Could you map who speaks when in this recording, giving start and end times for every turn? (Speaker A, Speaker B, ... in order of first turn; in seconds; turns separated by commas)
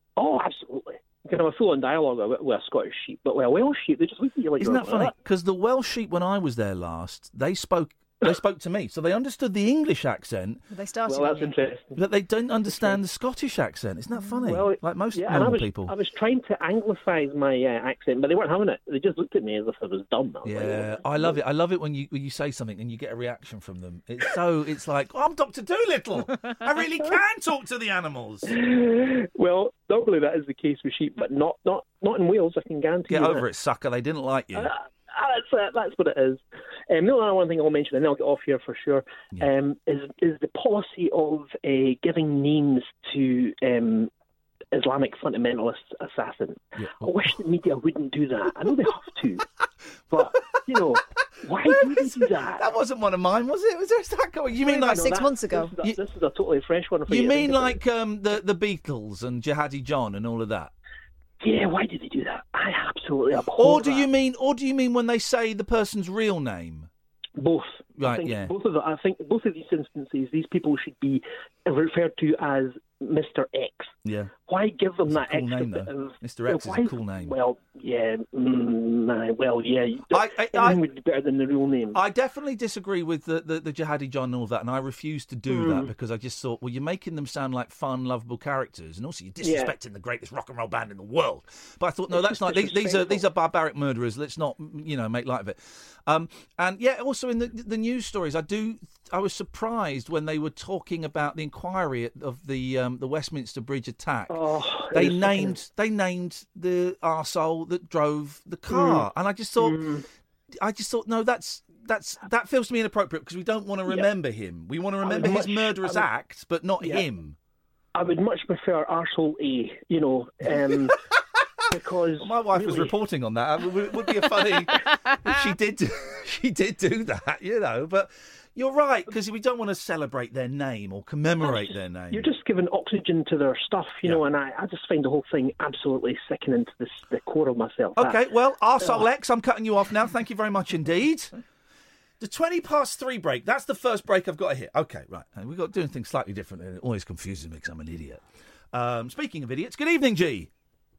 Speaker A: 0.2-5.1, Speaker B: 4.6-10.6, Speaker C: 10.7-11.6, Speaker A: 11.1-12.0, Speaker B: 11.9-16.0, Speaker A: 12.7-13.0, Speaker A: 14.4-21.4, Speaker B: 20.4-28.6, Speaker A: 28.5-33.5, Speaker B: 33.1-34.7, Speaker A: 34.5-44.1, Speaker A: 44.7-49.5, Speaker B: 46.8-47.4, Speaker A: 50.1-52.7, Speaker B: 50.2-50.6, Speaker B: 51.6-55.2, Speaker C: 54.6-55.8, Speaker A: 54.7-57.8, Speaker B: 57.1-60.7, Speaker A: 61.4-64.1, Speaker B: 63.5-66.9, Speaker A: 67.4-73.9, Speaker B: 68.0-68.5, Speaker B: 74.0-74.3, Speaker A: 74.4-82.0, Speaker B: 75.1-77.4, Speaker B: 80.1-80.8, Speaker B: 81.9-109.8, Speaker A: 85.5-85.9, Speaker A: 89.4-89.7, Speaker A: 92.1-93.2, Speaker A: 104.3-105.6, Speaker A: 108.7-110.1, Speaker B: 110.6-117.4, Speaker A: 115.0-116.1, Speaker A: 116.8-117.1, Speaker A: 118.0-121.0, Speaker A: 121.7-123.0, Speaker B: 122.2-132.3, Speaker A: 131.4-138.2, Speaker B: 137.9-141.3, Speaker A: 138.8-139.1, Speaker B: 142.2-148.2, Speaker B: 148.7-150.5